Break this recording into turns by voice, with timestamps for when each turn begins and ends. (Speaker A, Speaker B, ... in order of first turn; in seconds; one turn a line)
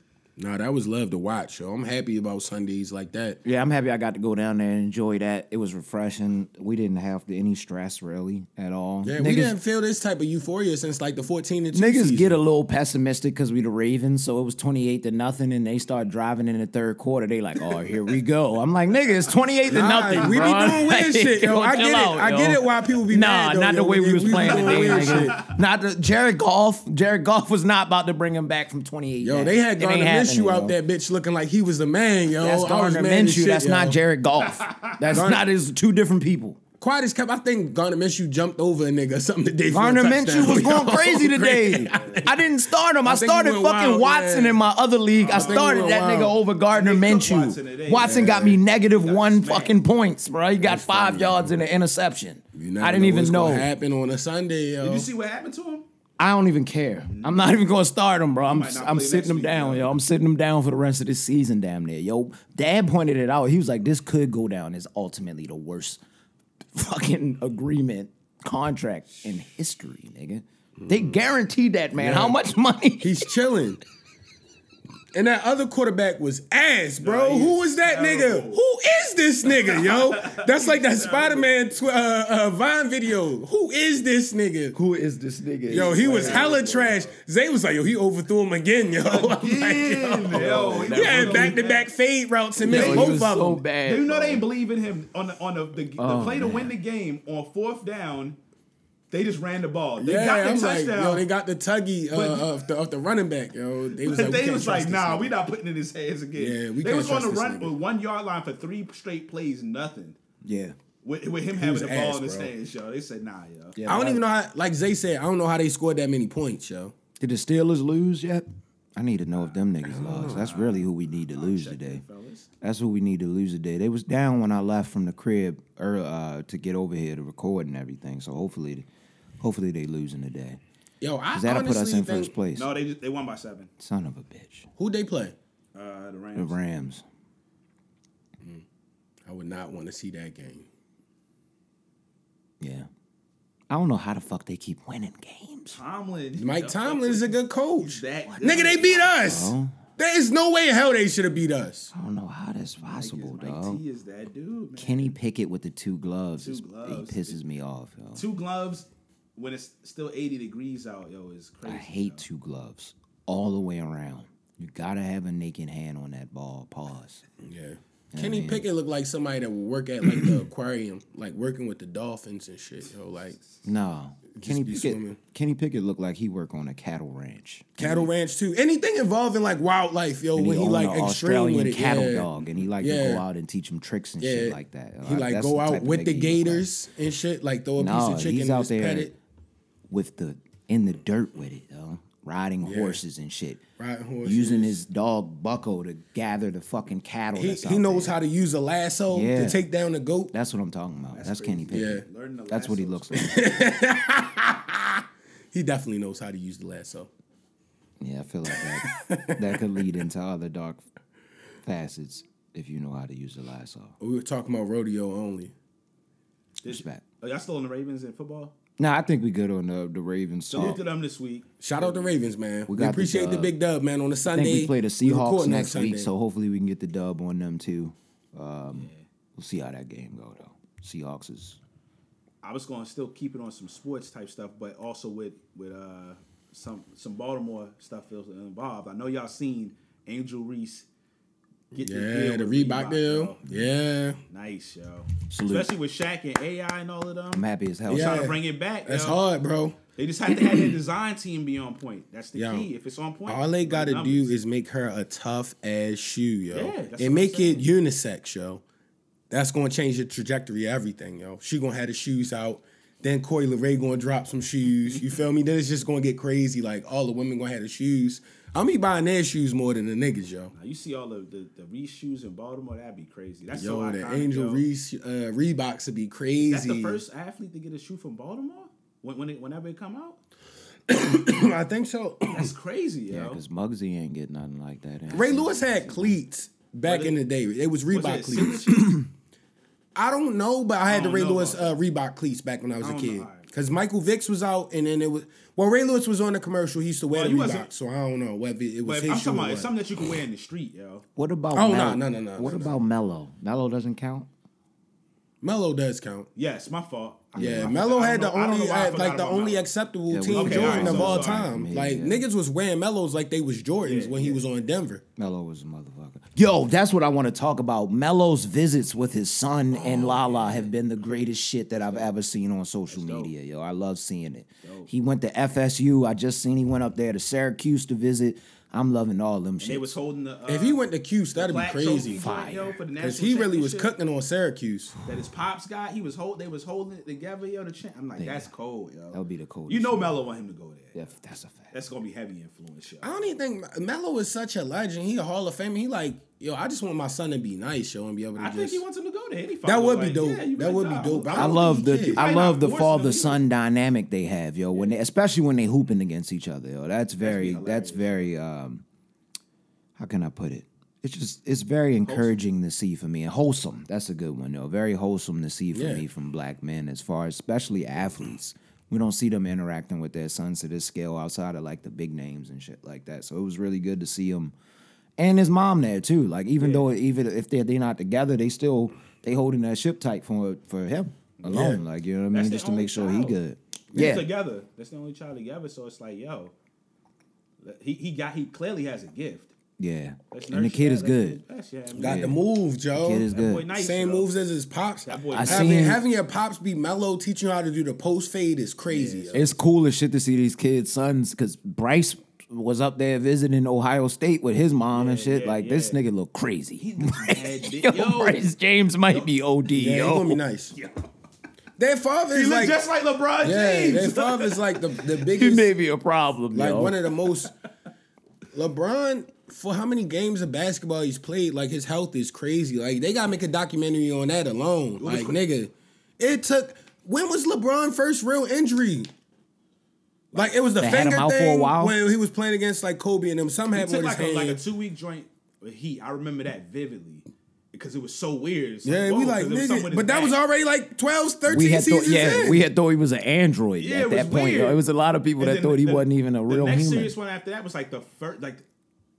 Speaker A: 0.4-3.4
Speaker B: 3.4-9.6
Speaker A: 9.0-12.4
Speaker B: 11.7-30.8
Speaker A: 19.7-25.4
Speaker C: 24.3-25.6
Speaker A: 29.2-34.0
Speaker B: 32.4-36.6
Speaker C: 34.6-34.9
Speaker A: 35.1-35.4
Speaker A: 36.8-42.3
Speaker B: 39.7-53.7
Speaker C: 41.9-42.3
Speaker A: 43.0-44.6
Speaker C: 45.2-45.9
Speaker A: 45.3-46.4
Speaker C: 46.7-48.4
Speaker A: 48.0-48.6
Speaker C: 48.9-49.8
Speaker A: 50.6-51.5
Speaker A: 52.5-55.1
Speaker C: 54.8-55.9
Speaker B: 56.2-66.0
Speaker C: 57.1-57.5
Speaker C: 58.5-60.0
Speaker B: 66.7-73.3
Speaker A: 70.8-71.0
Speaker A: 71.9-72.4
Speaker A: 73.0-73.8
Speaker A: 75.1-84.8
Speaker C: 77.0-78.6
Speaker C: 79.5-81.5
Speaker B: 84.7-86.8
Speaker A: 85.7-93.6
Speaker C: 85.7-87.0
Speaker C: 89.0-91.9
Speaker B: 90.3-91.6
Speaker B: 92.6-94.5
Speaker C: 92.7-93.2
Speaker C: 93.8-98.4
Speaker B: 96.0-96.7
Speaker C: 99.1-101.2
Speaker A: 100.0-105.3
Speaker C: 102.1-102.5
Speaker C: 104.0-110.2
Speaker A: 106.3-107.7
Speaker B: 110.4-110.8
Speaker C: 111.0-113.8
Speaker A: 111.5-112.5
Speaker B: 113.7-114.2
Speaker A: 113.8-116.9
Speaker B: 117.2-122.0
Speaker C: 119.9-122.5
Speaker A: 119.9-120.5
Speaker B: 122.6-128.8
Speaker B: 129.4-130.6
Speaker A: 131.0-132.3
Speaker B: 131.3-132.7
Speaker C: 132.5-133.7
Speaker B: 133.8-134.7
Speaker A: 134.8-135.3
Speaker C: 135.7-136.6
Speaker B: 136.3-137.0
Speaker A: 139.2-140.7
Speaker B: 142.6-142.9
Speaker B: 143.7-145.8
Speaker C: 145.7-149.2
Speaker A: 146.3-151.9
Speaker B: 149.2-149.8
Speaker B: 151.9-153.8
Speaker C: 153.0-155.1
Speaker B: 154.8-158.2
Speaker C: 156.4-157.4
Speaker C: 158.1-162.2
Speaker B: 161.6-167.2
Speaker A: 167.4-173.4
Speaker B: 168.1-168.7
Speaker B: 173.6-178.1
Speaker A: 174.3-175.2
Speaker A: 177.8-183.2
Speaker B: 180.3-186.7
Speaker A: 184.2-189.1
Speaker B: 187.8-189.1
Speaker B: 189.9-193.6
Speaker A: 192.6-193.0
Speaker A: 193.8-194.8
Speaker B: 194.2-198.2
Speaker A: 197.3-200.3
Speaker B: 199.1-199.6
Speaker B: 200.3-203.3
Speaker C: 201.1-203.5
Speaker A: 201.7-202.0
Speaker A: 203.1-207.1
Speaker B: 208.0-210.8
Speaker A: 208.5-209.7
Speaker B: 211.6-213.9
Speaker A: 214.0-215.5
Speaker C: 216.6-218.6
Speaker B: 216.6-217.0
Speaker B: 218.8-220.8
Speaker C: 220.5-222.2
Speaker A: 221.6-226.1
Speaker B: 222.7-223.5
Speaker B: 224.3-231.6
Speaker C: 228.7-229.0
Speaker C: 232.4-240.9
Speaker A: 241.7-244.2
Speaker C: 241.7-243.4
Speaker C: 244.3-249.2
Speaker B: 245.3-245.7
Speaker B: 247.3-248.3
Speaker A: 247.9-249.8
Speaker C: 249.9-254.3
Speaker A: 252.3-252.7
Speaker A: 253.2-258.6
Speaker C: 256.5-257.7
Speaker A: 259.3-270.5
Speaker C: 270.5-274.6
Speaker A: 273.5-277.0
Speaker C: 276.4-280.2
Speaker A: 280.9-282.5
Speaker C: 282.3-283.4
Speaker B: 283.1-286.0
Speaker A: 285.1-288.8
Speaker C: 286.8-287.2
Speaker C: 287.9-289.0
Speaker A: 289.9-299.7
Speaker C: 290.9-291.8
Speaker C: 292.8-293.5
Speaker C: 297.1-297.7
Speaker C: 298.8-301.0
Speaker B: 301.1-304.3
Speaker A: 301.5-302.7
Speaker A: 305.4-306.3
Speaker C: 306.4-309.7
Speaker B: 307.4-307.7
Speaker A: 307.4-315.0
Speaker B: 310.1-312.2
Speaker C: 310.3-311.5
Speaker C: 313.8-314.4
Speaker B: 315.2-329.9
Speaker C: 319.7-321.2
Speaker C: 321.8-322.1
Speaker C: 322.9-323.3
Speaker C: 324.6-324.9
Speaker C: 329.6-330.8
Speaker A: 330.5-332.3
Speaker C: 331.3-333.9
Speaker B: 332.2-332.7
Speaker A: 333.0-334.9
Speaker C: 335.0-341.0
Speaker B: 338.2-338.5
Speaker B: 339.1-340.2
Speaker B: 340.9-341.7
Speaker C: 341.7-343.2
Speaker A: 343.0-348.8
Speaker C: 348.4-353.4
Speaker A: 349.6-352.2
Speaker B: 351.3-358.8
Speaker C: 357.2-358.3
Speaker B: 359.9-374.5
Speaker C: 362.0-362.4
Speaker A: 365.7-366.0
Speaker B: 375.2-384.3
Speaker C: 376.6-376.9
Speaker C: 381.4-383.4
Speaker A: 381.5-381.8
Speaker C: 383.9-386.5
Speaker C: 387.6-389.5
Speaker B: 389.8-391.4
Speaker C: 390.3-392.3
Speaker A: 391.9-399.4
Speaker B: 392.0-392.4
Speaker B: 392.9-393.7
Speaker C: 393.3-394.3
Speaker C: 395.1-395.9
Speaker B: 395.3-396.0
Speaker C: 398.9-399.5
Speaker B: 399.3-410.4
Speaker C: 404.9-406.0
Speaker C: 406.8-408.5
Speaker A: 409.7-410.7
Speaker C: 410.7-411.1
Speaker A: 411.8-412.8
Speaker C: 412.3-415.0
Speaker A: 413.4-415.7
Speaker B: 415.3-417.0
Speaker A: 416.5-417.5
Speaker A: 418.5-429.1
Speaker C: 425.0-425.4
Speaker A: 430.3-434.6
Speaker B: 430.8-431.9
Speaker C: 433.7-440.4
Speaker A: 438.8-442.6
Speaker B: 441.5-447.1
Speaker C: 443.8-444.8
Speaker C: 445.4-448.6